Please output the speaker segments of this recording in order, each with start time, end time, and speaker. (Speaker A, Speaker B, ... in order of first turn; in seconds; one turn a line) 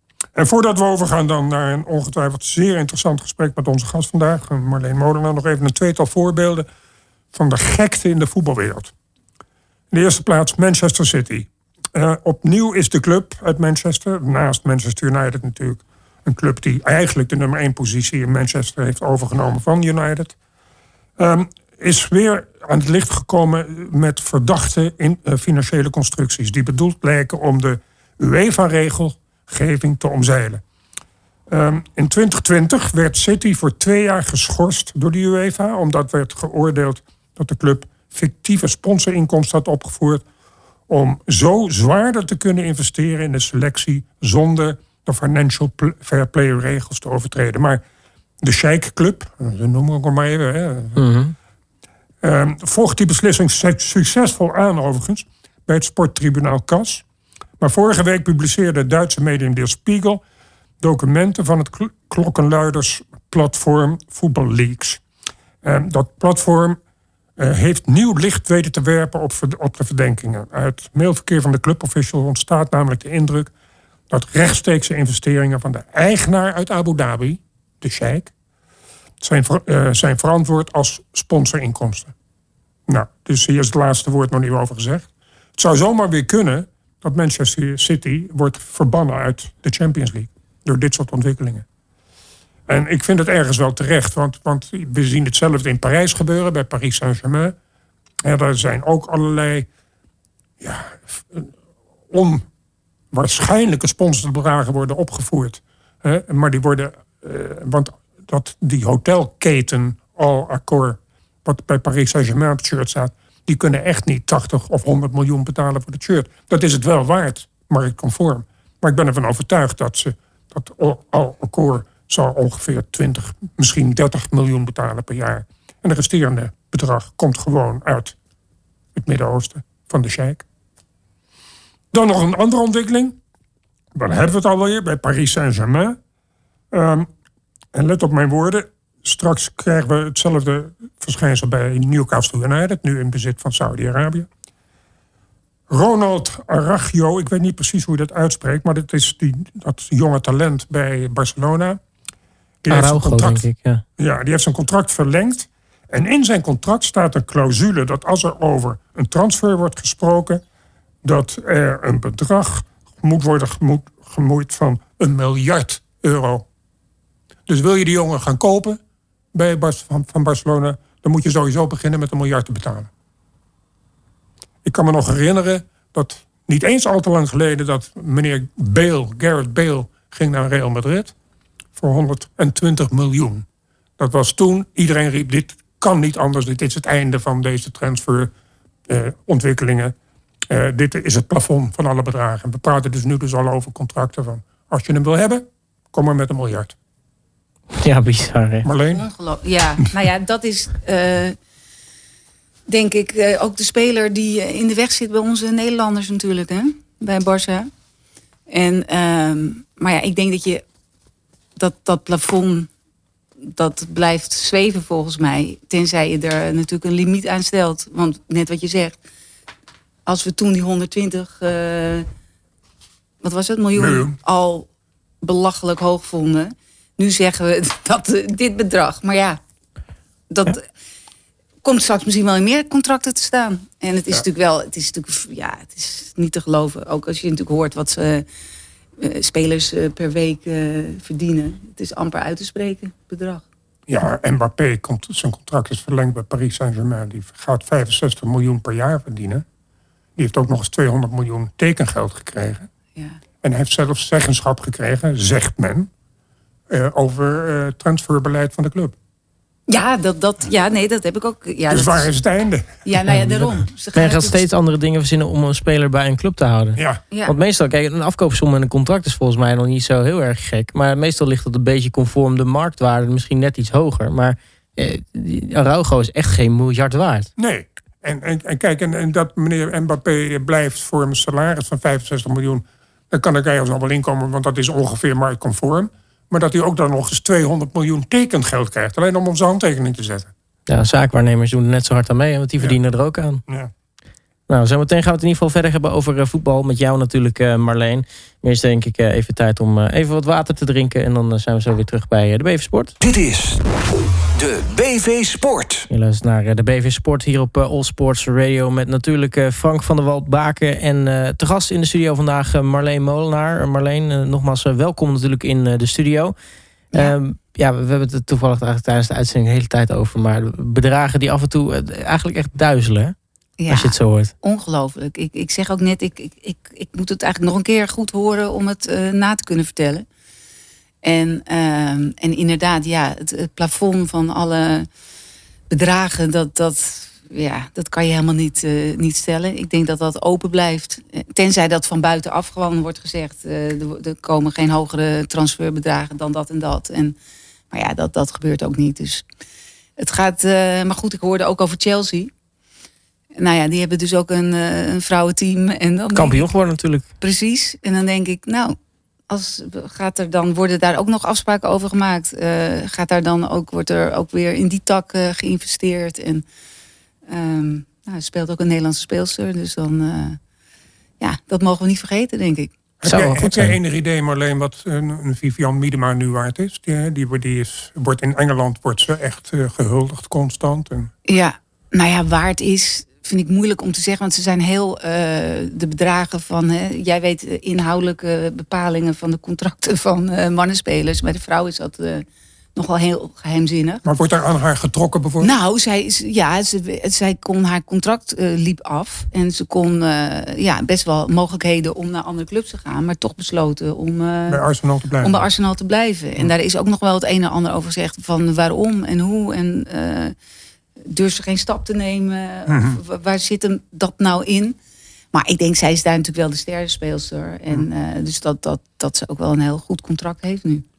Speaker A: 0.3-6.7
Speaker A: 7.3-8.9
Speaker A: 9.9-20.3
Speaker A: 21.2-30.6
Speaker A: 31.5-40.2
Speaker A: 40.9-47.8
Speaker A: 48.4-51.0
Speaker B: 51.0-51.3
Speaker A: 52.2-57.0
Speaker A: 57.6-60.2
Speaker A: 60.8-65.0
Speaker A: 65.6-66.8
Speaker A: 67.4-73.5
Speaker A: 74.1-78.3
Speaker A: 79.2-82.1
Speaker A: 82.9-91.6
Speaker A: 92.7-97.5
Speaker A: 98.2-99.7
Speaker A: 100.6-101.5
Speaker A: 102.1-102.4
Speaker A: 103.1-128.1
Speaker A: 128.9-130.4
Speaker A: 131.9-133.2
Speaker A: 133.9-136.0
Speaker A: 136.7-137.1
Speaker A: 137.7-144.3
Speaker A: 145.7-151.8
Speaker A: 152.6-153.4
Speaker B: 152.7-153.8
Speaker A: 154.0-160.4
Speaker A: 161.0-166.4
Speaker A: 167.5-168.8
Speaker A: 169.3-172.9
Speaker A: 174.6-181.1
Speaker A: 181.8-183.4
Speaker A: 184.0-188.3
Speaker A: 188.9-189.9
Speaker A: 190.5-196.7
Speaker B: 197.8-198.7
Speaker A: 198.6-199.1
Speaker C: 198.9-201.4
Speaker C: 202.7-207.7
Speaker C: 208.5-210.6
Speaker C: 211.6-212.7
Speaker C: 213.5-219.0
Speaker C: 220.1-222.1
Speaker C: 223.2-224.7
Speaker A: 223.7-224.2
Speaker C: 225.2-229.4
Speaker C: 230.3-230.6
Speaker C: 231.6-238.2
Speaker C: 239.0-243.4
Speaker A: 243.9-249.4
Speaker A: 250.2-252.7
Speaker A: 253.4-255.9
Speaker A: 256.7-258.9
Speaker C: 259.7-262.1
Speaker A: 261.7-263.5
Speaker C: 262.8-264.4
Speaker B: 263.9-277.3
Speaker A: 266.7-267.0
Speaker A: 277.4-290.3
Speaker B: 290.7-293.4
Speaker B: 294.5-302.9
Speaker D: 303.0-305.9
Speaker B: 305.9-316.3
Speaker B: 316.9-323.1
Speaker C: 323.6-330.1
Speaker B: 323.7-324.3
Speaker C: 331.0-334.9
Speaker C: 335.7-347.1
Speaker C: 347.7-349.2
Speaker C: 350.0-352.3
Speaker C: 353.4-356.5
Speaker B: 356.1-357.1
Speaker C: 357.2-358.8
Speaker C: 359.3-366.4
Speaker C: 367.3-370.4
Speaker C: 371.2-372.7
Speaker A: 373.0-381.1
Speaker B: 373.0-373.8
Speaker C: 381.2-394.0
Speaker A: 394.0-395.6
Speaker C: 395.4-404.6
Speaker A: 404.5-405.5
Speaker C: 405.2-410.3
Speaker C: 411.1-414.8
Speaker A: 412.7-413.0
Speaker C: 415.3-420.8